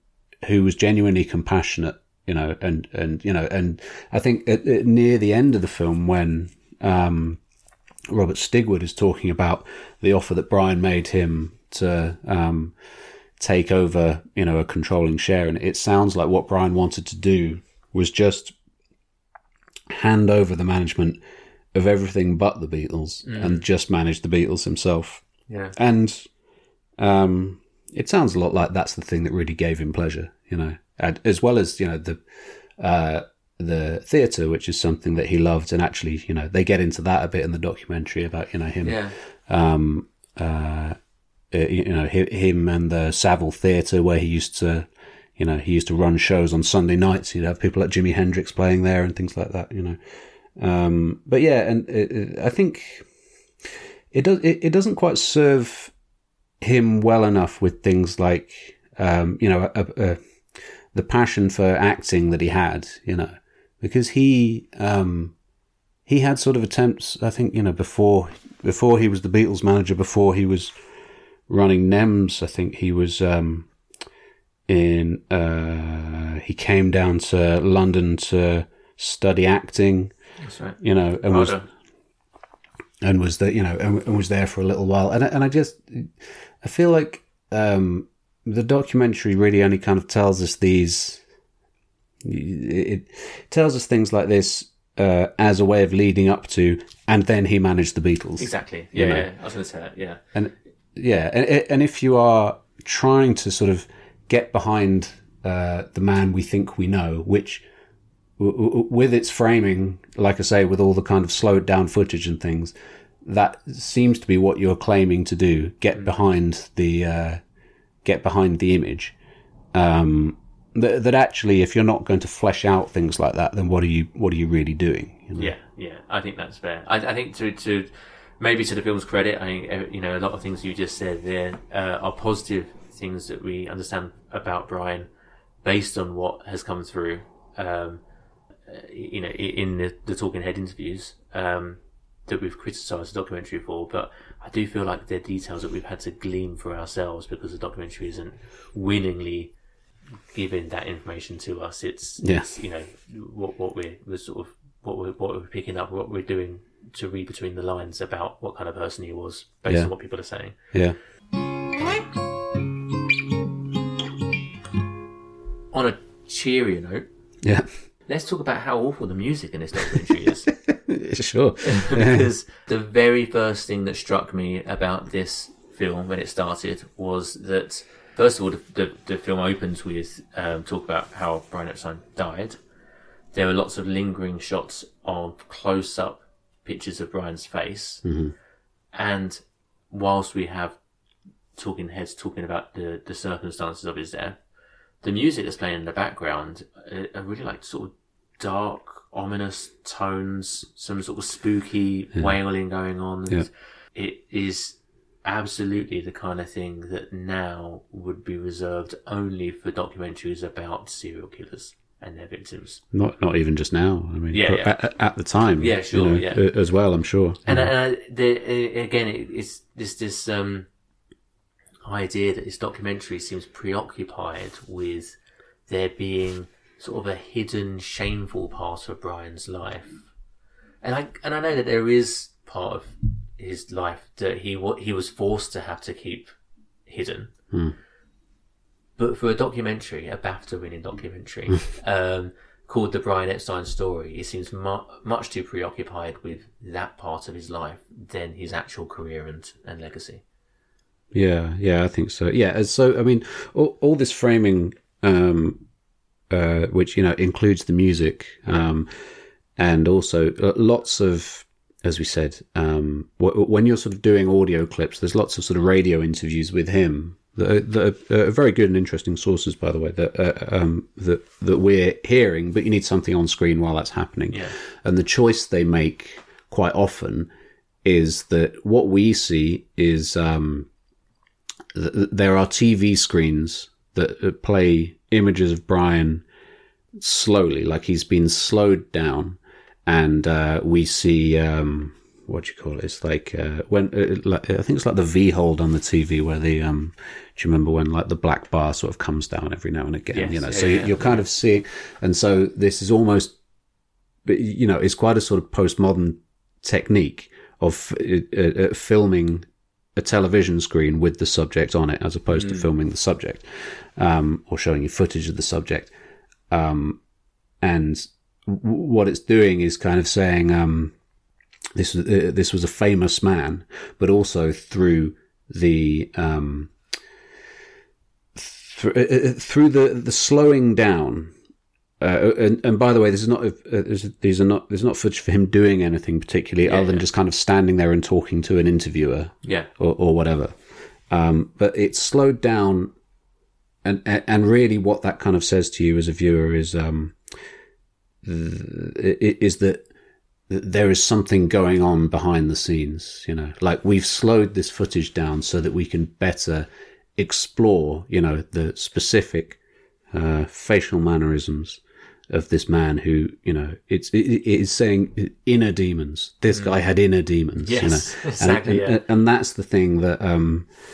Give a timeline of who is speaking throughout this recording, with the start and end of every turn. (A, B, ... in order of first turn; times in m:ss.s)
0:00.4-0:07.4 A
0:08.1-0:12.7 A
0:13.4-0:18.6 A
0:19.9-0:21.2 A
0:21.7-0:26.3 A
0:23.2-0:23.7 B
0:25.5-0:25.8 B
0:27.0-0:32.2 A
0:32.8-0:41.0 A
0:38.8-0:39.2 B
0:41.5-0:50.0 A
0:50.6-0:53.1 A
0:54.1-0:55.9 A
0:56.6-1:00.2 A
1:00.9-1:05.3 A
1:06.1-1:10.7 A
1:11.5-1:13.7 A
1:14.7-1:20.1 A
1:20.4-1:21.7 B
1:20.8-1:21.6 A
1:23.0-1:31.2 A
1:32.2-1:39.3 A
1:38.4-1:40.2 B
1:40.3-1:47.6 A
1:48.4-1:57.4 A
1:58.0-1:59.1 A
1:59.7-2:05.5 A
2:05.4-2:15.1 B
2:15.6-2:18.0 B
2:18.7-2:29.5 B
2:30.3-2:40.6 B
2:32.2-2:32.5 A
2:39.7-2:39.9 A
2:40.7-2:41.0 A
2:45.7-2:47.1 B
2:47.4-2:47.7 A
2:48.1-2:50.5 B
2:50.7-2:52.3 A
2:51.6-3:02.6 B
3:03.3-3:08.0 B
3:08.0-3:08.3 A
3:08.9-3:09.4 B
3:09.9-3:10.8 B
3:11.6-3:14.4 B
3:15.0-3:32.8 B
3:32.9-3:37.7 A
3:34.3-3:34.8 B
3:35.6-3:36.5 B
3:37.4-3:40.7 B
3:41.8-3:45.2 B
3:45.7-3:50.1 B
3:50.8-3:56.3 B
3:56.9-3:57.3 B
3:59.0-4:10.2 B
4:11.1-4:15.6 A
4:16.3-4:18.9 A
4:19.6-4:37.3 A
4:37.8-4:40.7 A
4:41.7-4:46.2 A
4:47.0-5:03.4 A
5:00.1-5:01.2 B
5:04.2-5:15.9 A
5:12.3-5:12.7 B
5:16.5-5:17.0 A
5:17.6-5:20.9 A
5:21.8-5:26.7 A
5:28.4-5:31.3 A
5:32.0-5:40.5 A
5:36.6-5:37.0 B
5:39.4-5:39.7 B
5:41.1-5:42.9 A
5:43.8-5:47.2 A
5:48.2-5:49.9 A
5:50.5-5:59.6 A
6:00.1-6:10.7 A
6:06.5-6:06.8 B
6:07.6-6:09.0 B